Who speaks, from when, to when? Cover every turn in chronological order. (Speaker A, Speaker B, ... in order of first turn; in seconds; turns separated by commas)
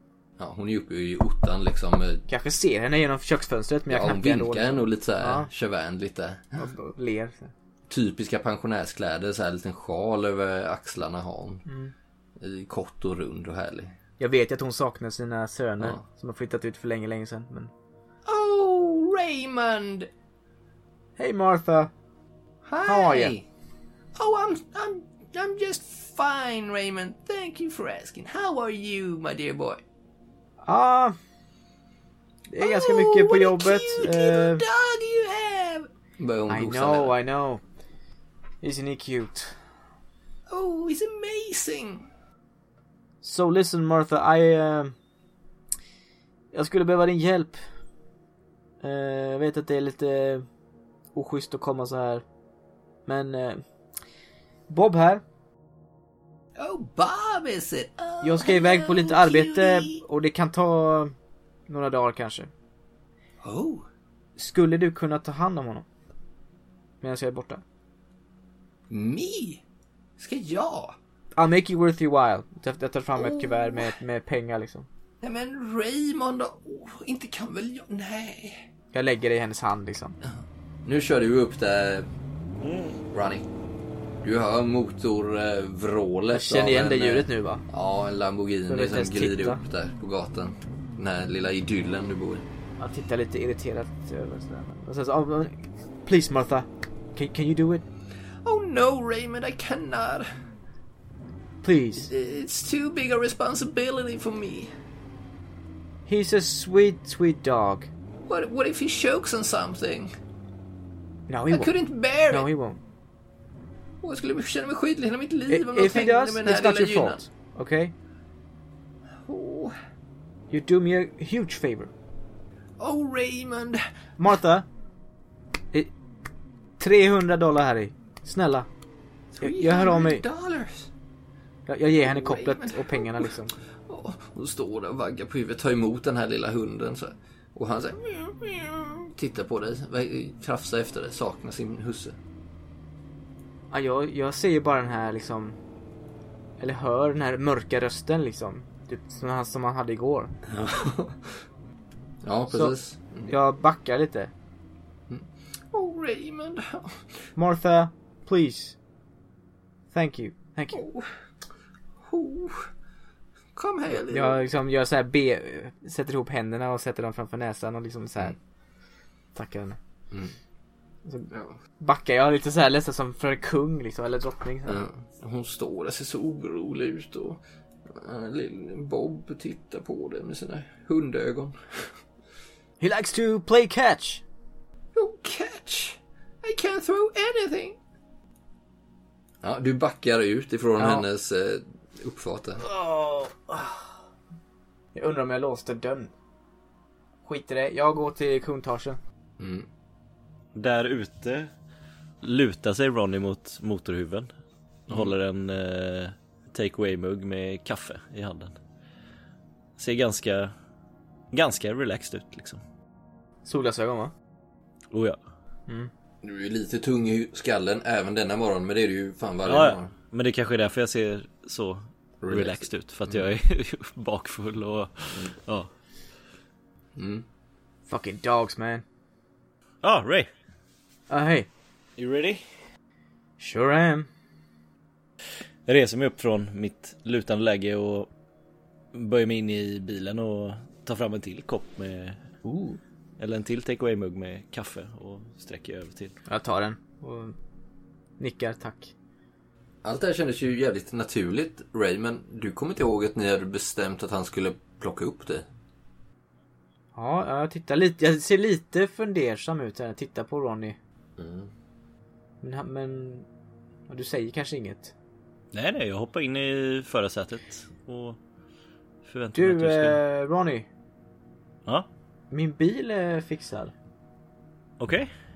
Speaker A: 0.4-2.2, Speaker B: 2.3-5.5, Speaker A: 3.9-6.7, Speaker B: 6.6-7.5, Speaker A: 7.9-11.6, Speaker B: 11.7-11.9, Speaker A: 12.4-13.9, Speaker B: 14.2-17.7, Speaker A: 18.2-20.1, Speaker B: 21.2-21.9, Speaker A: 22.6-23.4, Speaker B: 22.8-23.4, Speaker A: 24.1-29.8, Speaker B: 30.6-31.2, Speaker B: 32.5-34.6, Speaker A: 32.6-37.1, Speaker B: 36.5-37.6, Speaker B: 38.6-39.6, Speaker A: 40.5-42.1, Speaker B: 43.2-44.9, Speaker B: 46.5-47.6, Speaker B: 48.8-50.5, Speaker B: 51.1-52.2, Speaker B: 53.0-53.6, Speaker B: 54.7-55.2, Speaker A: 56.5-60.0, Speaker B: 58.2-61.1, Speaker B: 61.7-62.5, Speaker A: 63.4-63.9, Speaker B: 64.4-65.8, Speaker B: 67.0-67.6, Speaker A: 68.9-69.6, Speaker A: 70.2-71.0, Speaker B: 71.3-74.9, Speaker A: 73.1-73.9, Speaker A: 75.2-78.7, Speaker B: 78.9-80.2, Speaker A: 80.8-82.1, Speaker C: 82.6-83.0, Speaker A: 83.1-83.5, Speaker A: 84.2-92.5, Speaker B: 86.3-87.6, Speaker B: 88.7-89.6, Speaker B: 92.8-97.8, Speaker A: 98.4-100.3, Speaker B: 101.6-102.1, Speaker A: 102.0-104.7, Speaker B: 106.1-107.9, Speaker A: 108.3-110.1, Speaker B: 111.3-112.8, Speaker A: 111.5-112.5, Speaker A: 114.0-117.2, Speaker B: 115.5-117.9, Speaker A: 119.2-119.7, Speaker B: 120.5-121.9, Speaker A: 122.8-123.8, Speaker B: 124.2-124.7, Speaker B: 126.8-128.7, Speaker A: 129.3-130.9, Speaker B: 129.4-130.2, Speaker B: 131.7-133.5, Speaker A: 132.0-133.3, Speaker A: 133.8-142.2, Speaker B: 143.7-145.6, Speaker B: 146.6-150.3, Speaker A: 150.5-151.2, Speaker A: 152.2-153.3, Speaker B: 152.5-154.3, Speaker A: 155.1-157.2, Speaker B: 157.3-158.8, Speaker B: 159.9-160.8, Speaker A: 160.7-161.2, Speaker A: 162.0-162.7, Speaker A: 163.5-164.4, Speaker B: 164.1-168.4, Speaker B: 169.3-169.8, Speaker B: 171.0-174.8, Speaker A: 171.3-171.6, Speaker A: 174.7-182.0, Speaker B: 182.8-184.2, Speaker A: 184.9-187.8, Speaker A: 189.4-192.6, Speaker B: 190.8-191.1, Speaker B: 192.6-193.8, Speaker B: 194.9-196.1, Speaker B: 197.2-199.0, Speaker A: 199.4-199.7, Speaker C: 200.5-201.5, Speaker C: 202.2-204.3, Speaker C: 204.9-208.6, Speaker C: 209.8-210.5, Speaker C: 211.3-212.6, Speaker B: 213.4-214.1, Speaker C: 214.9-215.2, Speaker A: 216.2-219.9, Speaker C: 219.4-225.7, Speaker A: 222.2-223.3, Speaker A: 226.9-227.2, Speaker B: 227.9-228.8, Speaker C: 229.8-230.3, Speaker B: 231.1-231.5, Speaker C: 232.0-232.4, Speaker B: 233.4-234.1, Speaker C: 235.7-238.1, Speaker C: 238.9-242.3, Speaker B: 242.4-242.8, Speaker C: 243.2-246.2, Speaker B: 246.3-247.3, Speaker B: 248.2-248.9, Speaker A: 249.8-255.5, Speaker B: 256.9-260.8, Speaker A: 261.2-261.5, Speaker B: 262.4-263.3, Speaker B: 263.9-264.9, Speaker C: 265.5-268.2, Speaker C: 269.0-270.0, Speaker B: 269.3-270.7, Speaker B: 272.3-273.7, Speaker C: 274.8-275.1